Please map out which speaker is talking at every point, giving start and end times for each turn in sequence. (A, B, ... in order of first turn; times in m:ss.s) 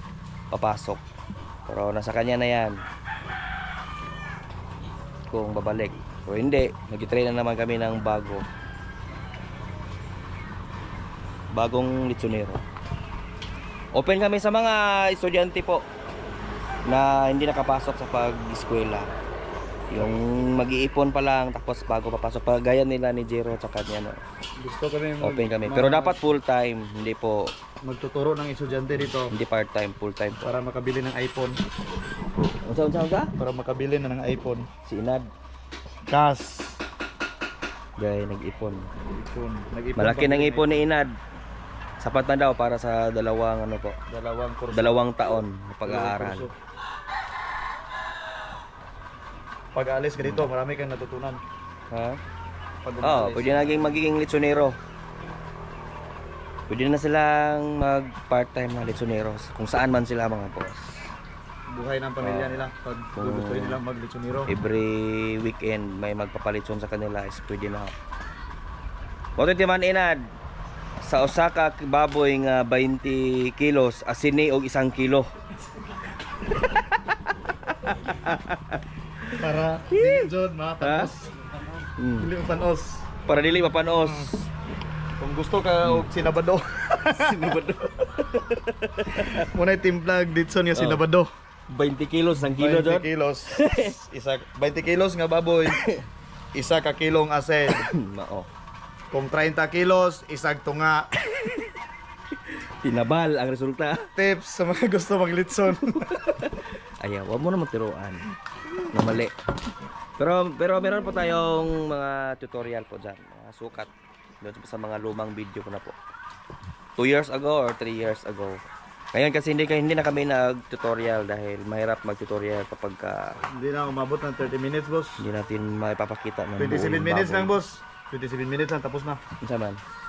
0:00.5-0:01.0 A
0:01.7-0:02.8 A
0:05.3-0:08.5 A
0:11.5-0:12.6 A
0:13.9-0:15.8 A
0:16.9-0:19.1 A
0:19.9-0:24.2 A
0:24.6-0:26.2 B
0:25.2-0:27.5 A
0:27.8-0:29.3 B
0:29.3-0:30.4 A
0:30.4-0:31.6 B
0:32.6-0:33.3 A
0:33.4-0:34.7 B
0:34.8-0:35.3 A
0:36.1-0:36.8 B
0:38.0-0:38.9 A
0:39.1-0:40.7 B
0:40.0-0:41.2 A
0:42.0-0:44.0 A
0:44.1-0:45.1 B
0:44.7-0:46.5 A
0:45.8-0:46.5 B
0:49.7-0:51.4 B
0:50.2-0:50.5 A
0:51.9-0:52.2 A
0:52.8-0:53.9 B
0:53.0-0:54.8 A
0:56.7-1:01.1 A
1:01.7-1:04.5 B
1:02.2-1:02.6 A
1:03.2-1:03.8 A
1:04.5-1:07.9 A
1:09.4-1:10.2 A
1:11.0-1:15.3 A
1:17.6-1:21.1 A
1:19.3-1:21.4 B
1:22.0-1:22.3 A
1:22.2-1:23.1 B
1:23.2-1:24.5 A
1:25.2-1:27.8 B
1:27.0-1:29.5 A
1:29.4-1:31.3 B
1:30.7-1:31.0 A
1:31.7-1:33.9 A
1:32.4-1:35.8 B
1:35.6-1:36.0 A
1:36.5-1:37.9 B
1:37.7-1:38.5 A
1:39.1-1:41.1 B
1:41.2-1:41.7 A
1:42.4-1:44.1 A
1:44.2-1:46.3 B
1:45.7-1:48.3 A
1:48.9-1:49.3 A
1:50.2-1:56.0 A
1:57.0-1:58.6 A
1:59.1-2:03.4 A
2:03.5-2:05.2 B
2:05.2-2:07.6 A
2:06.6-2:09.2 B
2:09.4-2:09.8 A